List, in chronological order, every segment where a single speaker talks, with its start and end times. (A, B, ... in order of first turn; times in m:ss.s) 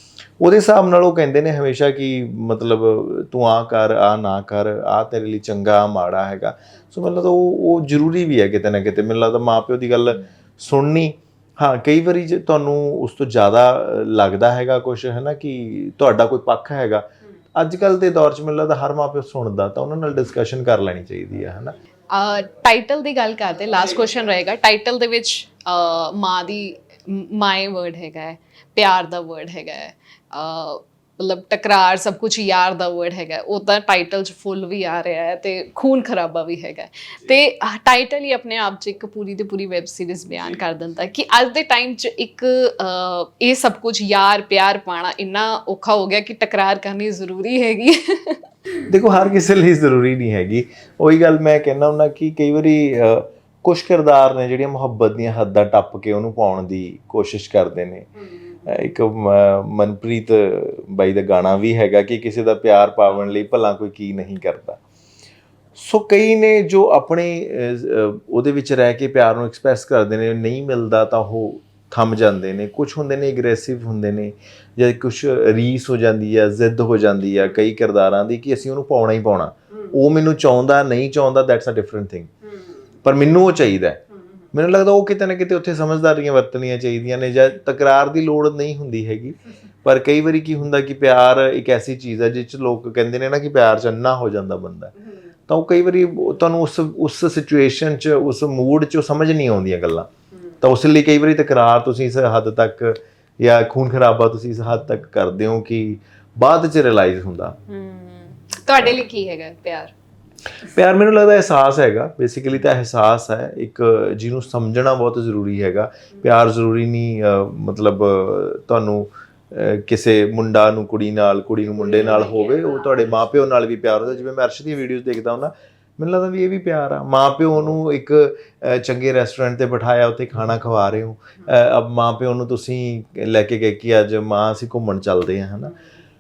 0:00.4-0:21.7 A
0:22.1-0:48.4 B
0:48.9-0:58.1 A
0:58.6-1:04.8 A
1:05.8-1:22.3 A
1:23.0-1:24.0 A
1:24.5-1:34.9 A
1:35.5-1:40.1 A
1:40.6-1:47.6 A
1:47.7-1:49.9 B
1:50.7-2:15.7 A
2:01.8-2:03.0 B